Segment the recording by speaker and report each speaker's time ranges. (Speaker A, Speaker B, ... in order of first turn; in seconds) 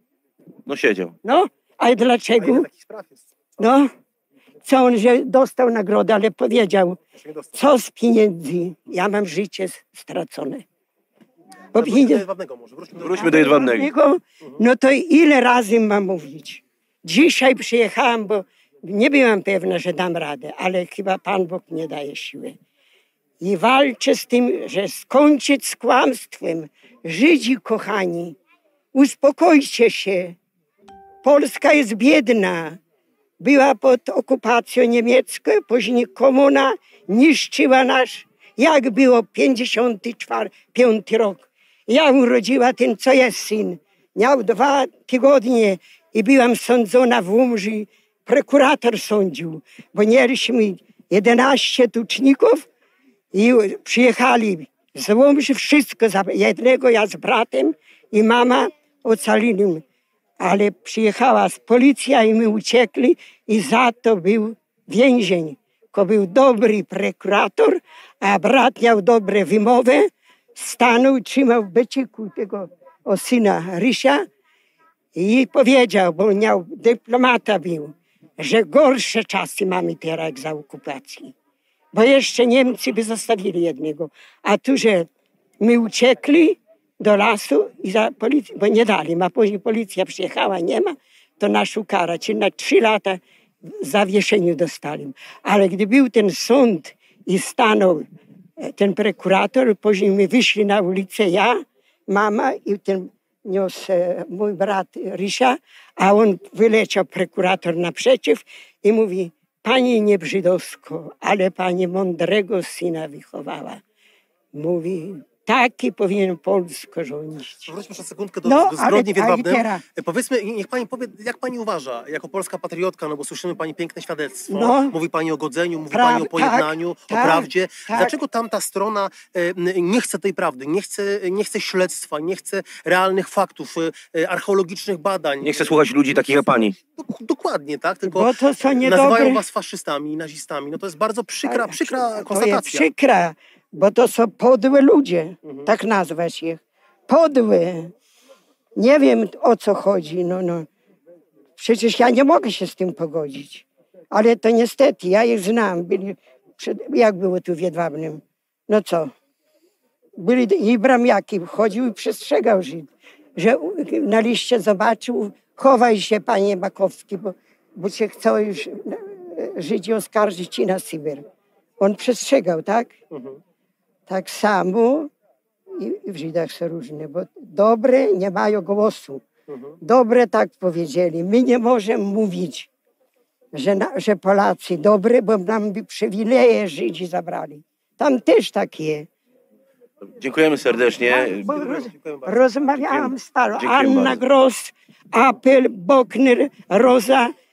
Speaker A: 0.7-1.1, 13.0-13.9, 135.4-136.7, 190.1-191.5, 192.9-194.2
Speaker B: 1.2-2.6, 3.6-3.9, 4.6-7.0, 7.5-10.7, 11.8-12.2, 13.1-22.6, 23.4-28.4, 28.9-30.4, 31.2-32.8, 33.4-52.7, 53.3-59.8, 60.4-74.2, 75.2-81.3, 81.9-85.1, 85.6-98.0, 98.6-113.8, 114.5-117.7, 118.4-119.8, 124.5-125.0, 125.9-128.2, 138.0-139.4, 141.4-147.9, 148.8-150.7, 151.6-159.1, 160.2-171.2, 171.8-173.0, 174.1-175.1, 175.7-179.2, 179.8-182.7, 183.5-189.1, 191.1-197.3
Speaker C: 2.4-3.7, 7.2-7.7, 11.8-13.6, 117.7-135.7, 136.6-142.9, 173.1-173.4, 179.5-179.8, 190.8-192.4